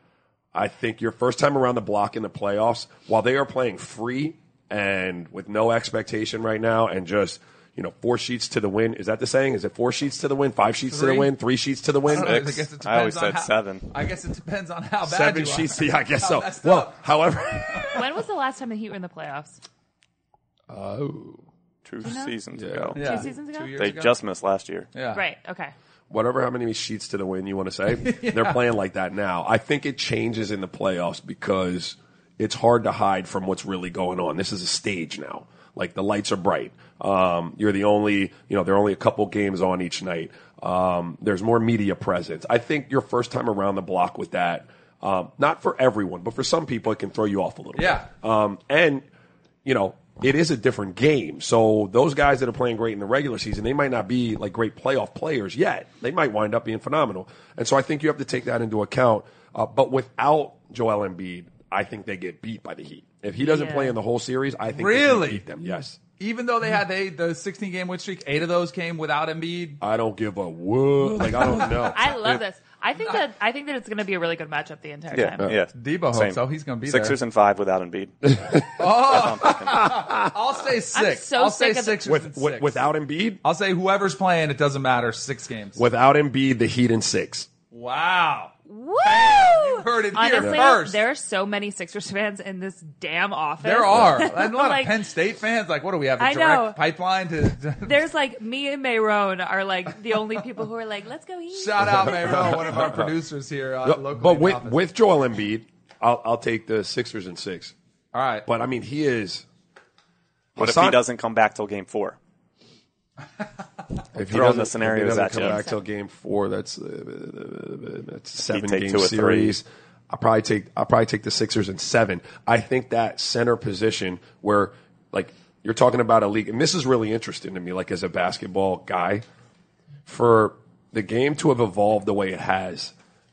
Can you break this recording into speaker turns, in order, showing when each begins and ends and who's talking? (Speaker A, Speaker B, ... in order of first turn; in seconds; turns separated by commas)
Speaker A: 0.5-12.4, Speaker B: 10.8-11.3, Speaker B: 12.1-17.0, Speaker C: 12.1-13.8, Speaker A: 15.0-18.1, Speaker D: 17.9-19.6, Speaker A: 20.7-21.4, Speaker C: 21.8-23.0, Speaker D: 22.0-22.3, Speaker A: 22.5-23.2, Speaker D: 22.9-23.9, Speaker B: 22.9-24.1, Speaker C: 23.8-24.9, Speaker B: 24.9-25.2, Speaker D: 25.1-25.7, Speaker A: 26.1-49.0, Speaker B: 28.0-28.6, Speaker B: 47.7-48.1, Speaker A: 49.6-66.0, Speaker D: 63.4-64.0, Speaker B: 64.7-65.4, Speaker B: 66.1-69.8, Speaker A: 69.8-72.4, Speaker B: 71.2-71.9, Speaker D: 71.6-75.5, Speaker C: 75.1-79.8, Speaker B: 75.7-77.2, Speaker A: 78.3-78.8, Speaker B: 78.7-82.8, Speaker A: 79.4-80.3, Speaker D: 80.9-82.0, Speaker A: 82.0-83.4, Speaker B: 83.4-85.8, Speaker A: 85.8-87.5, Speaker B: 87.7-91.0, Speaker D: 88.7-95.0, Speaker B: 93.6-98.0, Speaker A: 93.9-94.2, Speaker D: 96.2-96.8, Speaker D: 97.8-102.9, Speaker B: 101.5-104.8, Speaker A: 102.0-103.1, Speaker A: 103.8-107.7, Speaker B: 108.1-108.5, Speaker A: 108.5-109.5, Speaker A: 110.5-111.0, Speaker C: 110.6-112.2, Speaker A: 114.1-129.2, Speaker C: 114.2-115.6, Speaker D: 115.3-115.8, Speaker C: 118.5-119.5, Speaker A: 130.1-132.9